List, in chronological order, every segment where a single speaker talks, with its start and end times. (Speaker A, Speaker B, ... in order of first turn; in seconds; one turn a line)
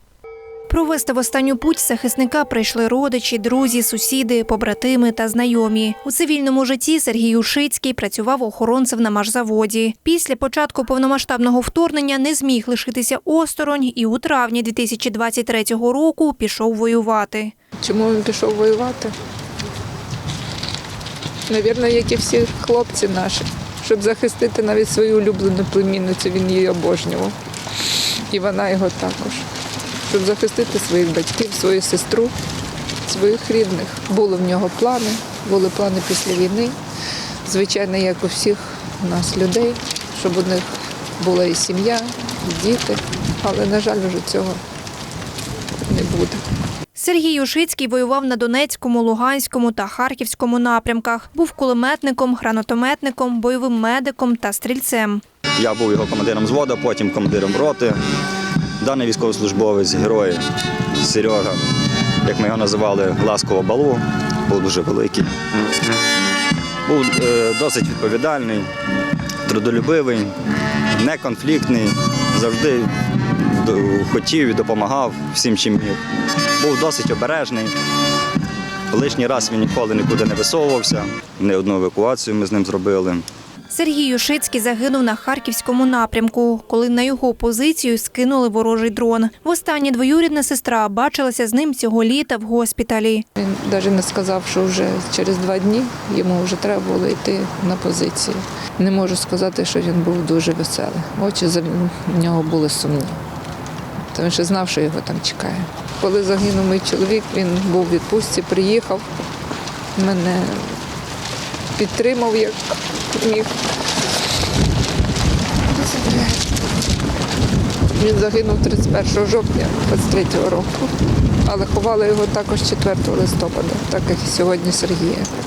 Speaker A: 0.7-17.5
Speaker B: 17.8-19.1
Speaker B: 21.5-29.5
Speaker B: 30.1-32.3
Speaker B: 33.0-36.8
Speaker B: 37.4-44.6
Speaker B: 45.9-46.4
Speaker A: 46.9-55.2
Speaker C: 55.6-58.0
Speaker C: 58.8-60.4
Speaker C: 61.0-61.6
Speaker C: 62.2-65.5
Speaker C: 66.8-68.7
Speaker C: 69.5-70.3
Speaker C: 70.9-76.0
Speaker C: 76.6-77.7
Speaker C: 78.9-83.2
Speaker A: 83.7-93.2
Speaker B: 93.4-103.2
Speaker B: 104.1-109.0
Speaker B: 110.0-110.7
Speaker B: 111.8-113.5
Speaker B: 115.7-116.3
Speaker B: 118.0-120.9
Speaker B: 121.4-125.3